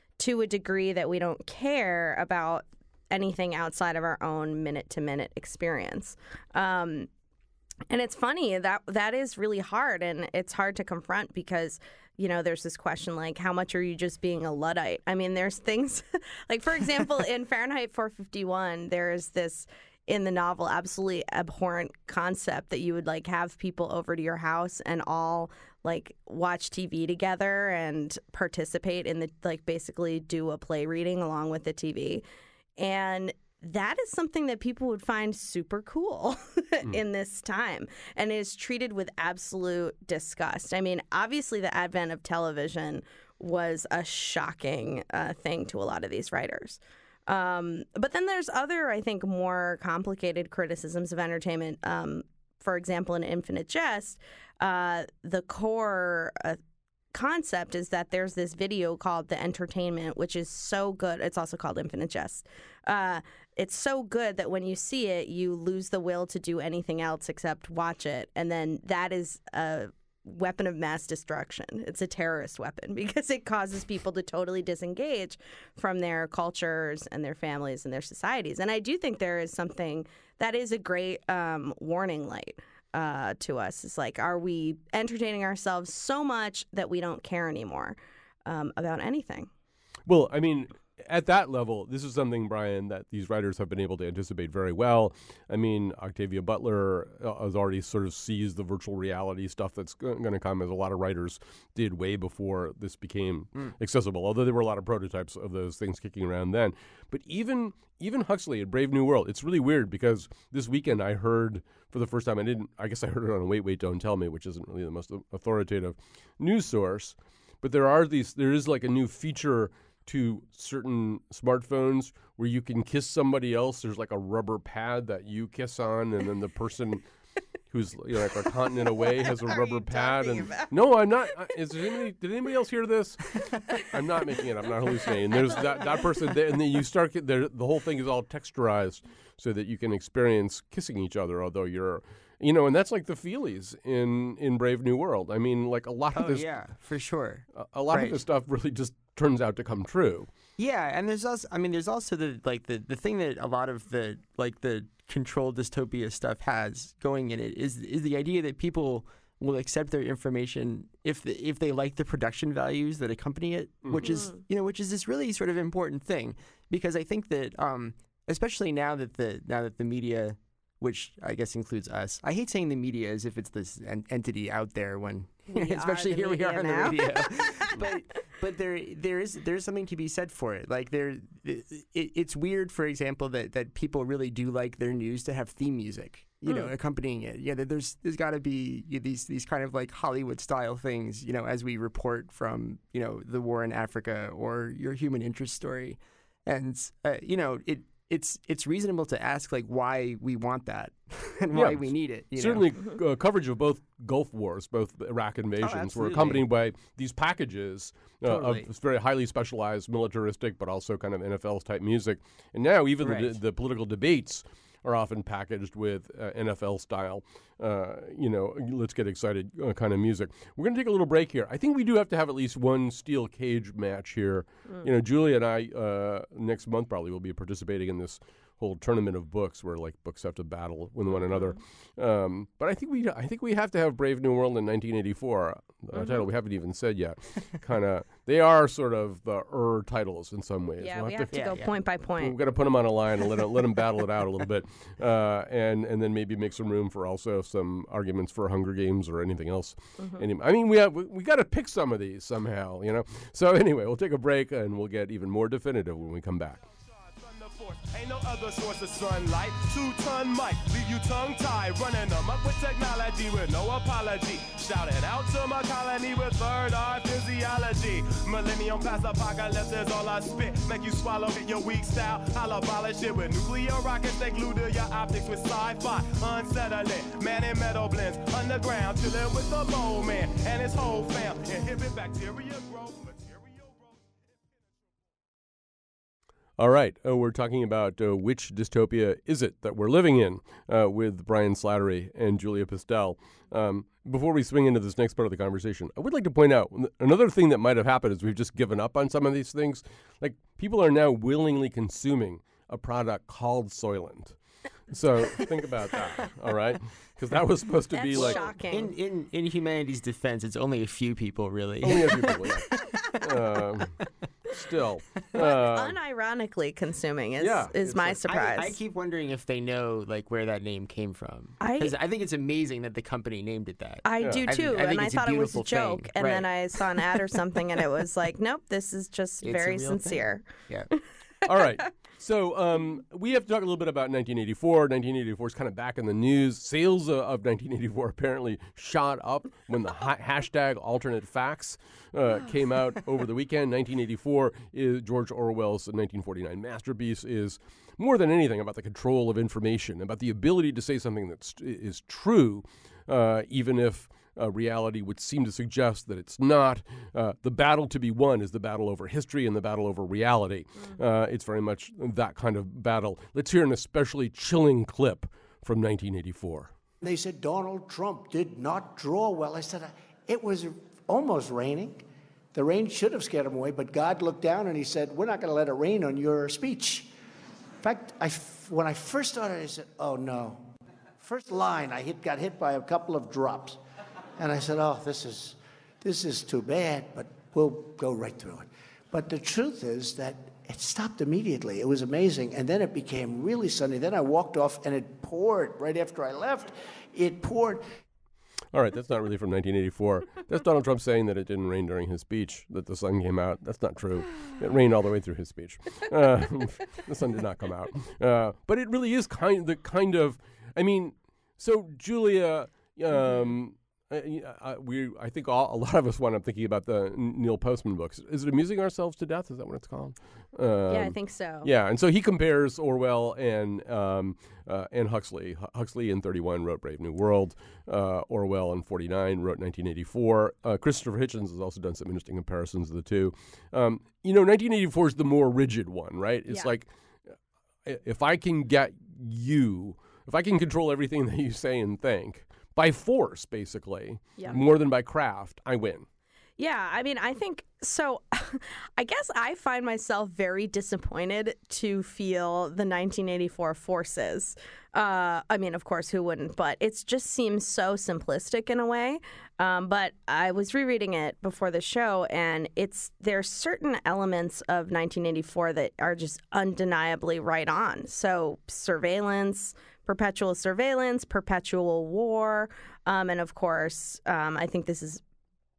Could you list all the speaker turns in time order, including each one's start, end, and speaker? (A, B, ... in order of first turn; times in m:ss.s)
0:00.2-0:07.1 A
0:07.9-0:32.2 A
0:32.8-0:56.6 A
0:57.1-1:29.5 A
1:30.0-2:07.0 B
2:07.7-2:26.5 B
2:09.3-2:10.7 A
2:26.1-2:28.2 C
2:27.6-2:30.3 B
2:30.6-3:22.8 C
2:44.0-2:44.4 A
2:55.5-2:57.7 A
3:21.5-4:01.4 B
3:25.6-3:26.4 C
3:28.2-3:28.7 C
3:33.0-3:33.4 C
4:00.8-4:02.3 A
4:01.3-4:01.7 C
4:02.2-4:16.6 B
4:10.0-4:10.2 A
4:16.9-4:43.9 D
4:46.6-5:04.4 B
5:04.9-5:08.5 B
5:07.9-5:08.9 A
5:08.1-5:13.4 C
5:11.8-5:14.0 B
5:14.5-5:16.0 B
5:15.4-5:18.8 A
5:17.4-5:18.2 B
5:18.2-5:27.2 C
5:21.6-5:21.9 A
5:24.0-5:30.5 A
5:29.4-5:30.9 C
5:31.4-6:06.7 B
6:07.0-6:17.1 E
6:17.8-6:20.7 E
6:21.2-6:23.8 E
6:24.4-6:37.8 E
6:38.7-7:16.9 B
7:00.9-7:01.7 A
7:17.8-7:26.1 B
7:26.6-7:55.2 A